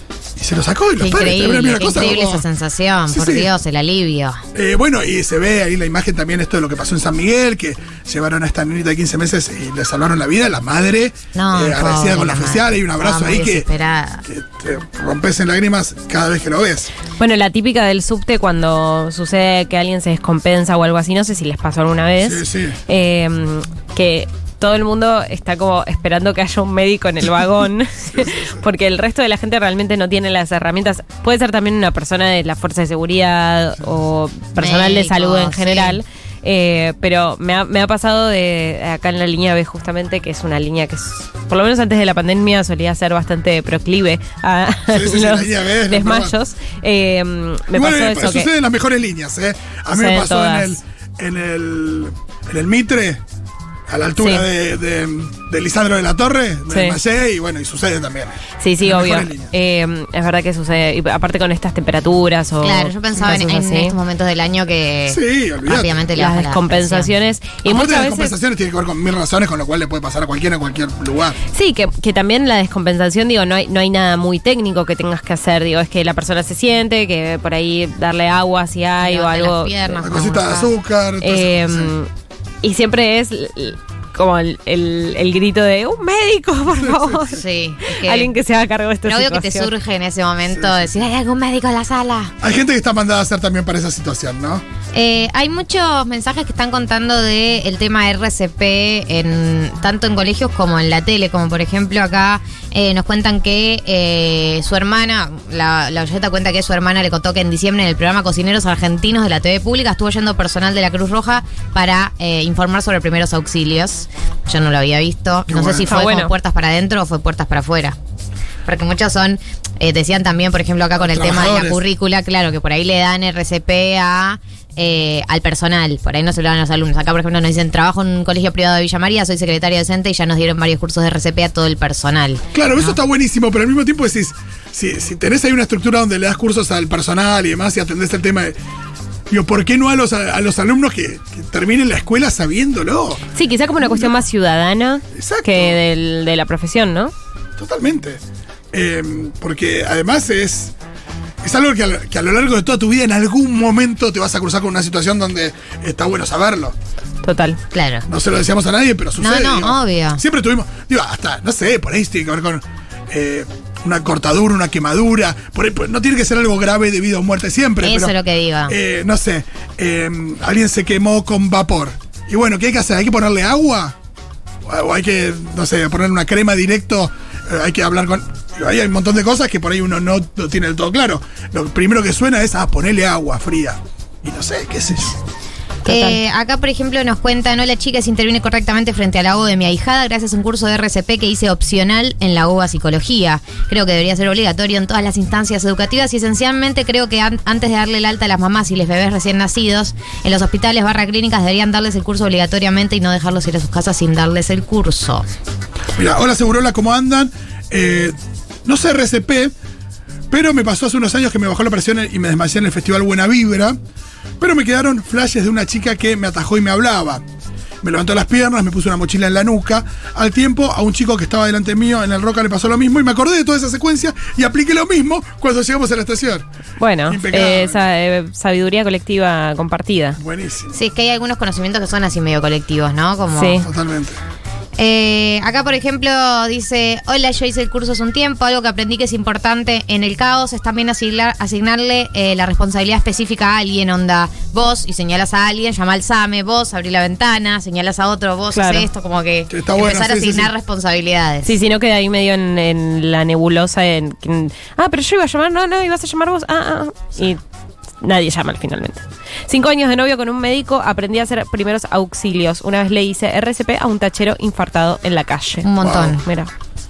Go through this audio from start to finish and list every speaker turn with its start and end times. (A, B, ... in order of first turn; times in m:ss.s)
0:00.4-0:02.4 A
0:01.0-0:04.4 B
0:03.1-0:03.5 A
0:04.5-0:13.7 A
0:11.3-0:14.2 B
0:14.3-0:16.9 A
0:17.2-0:48.5 C
0:22.2-0:22.8 A
0:28.1-0:28.5 A
0:34.6-0:36.0 B
0:44.9-0:46.3 A
0:47.7-0:53.2 A
0:49.9-0:50.8 C
0:53.9-0:59.5 A
0:54.2-0:54.4 C
0:56.7-0:57.0 C
0:58.6-1:04.0 C
1:02.6-1:07.1 B
1:05.1-1:06.0 A
1:06.2-1:08.4 C
1:07.6-1:11.4 A
1:11.5-1:19.8 C
1:19.0-1:20.7 B
1:20.0-1:21.9 A
1:21.2-1:22.1 C
1:22.6-1:29.7 C
1:26.8-1:27.3 A
1:27.3-1:28.3 B
1:29.1-1:32.3 B
1:30.5-1:30.9 A
1:32.4-1:34.6 A
1:34.9-1:58.0 B
1:55.5-1:55.9 A
1:55.9-1:56.3 C
1:58.7-2:13.0 B
2:01.0-2:01.8 A
2:12.5-2:18.6 A
2:19.3-2:23.3 A
2:23.4-2:27.1 C
2:23.8-2:24.2 A
2:25.1-2:25.8 A
2:27.6-2:28.2 A
2:28.7-2:30.7 A
2:31.4-2:36.8 A
2:37.2-2:37.6 C
2:37.7-2:38.0 B
2:38.1-2:48.1 A
2:39.2-2:40.2 B
2:47.8-2:48.8 B
2:48.7-2:54.0 A
2:54.7-3:05.2 A
3:05.9-3:06.2 C
3:05.9-3:25.2 B
3:26.0-3:29.5 A
3:30.3-3:33.8 A
3:34.4-3:37.2 A
3:37.8-3:46.5 A
3:46.8-3:50.2 C
3:47.1-3:47.8 A
3:50.2-3:50.8 A
3:50.7-3:53.6 B
3:53.4-3:53.7 C
3:53.6-3:54.2 A
3:54.8-4:11.5 B
4:08.5-4:08.9 C
4:09.5-4:10.5 A
4:11.4-4:17.4 C
4:18.0-4:26.5 C
4:25.6-4:26.2 B
4:25.8-4:26.2 A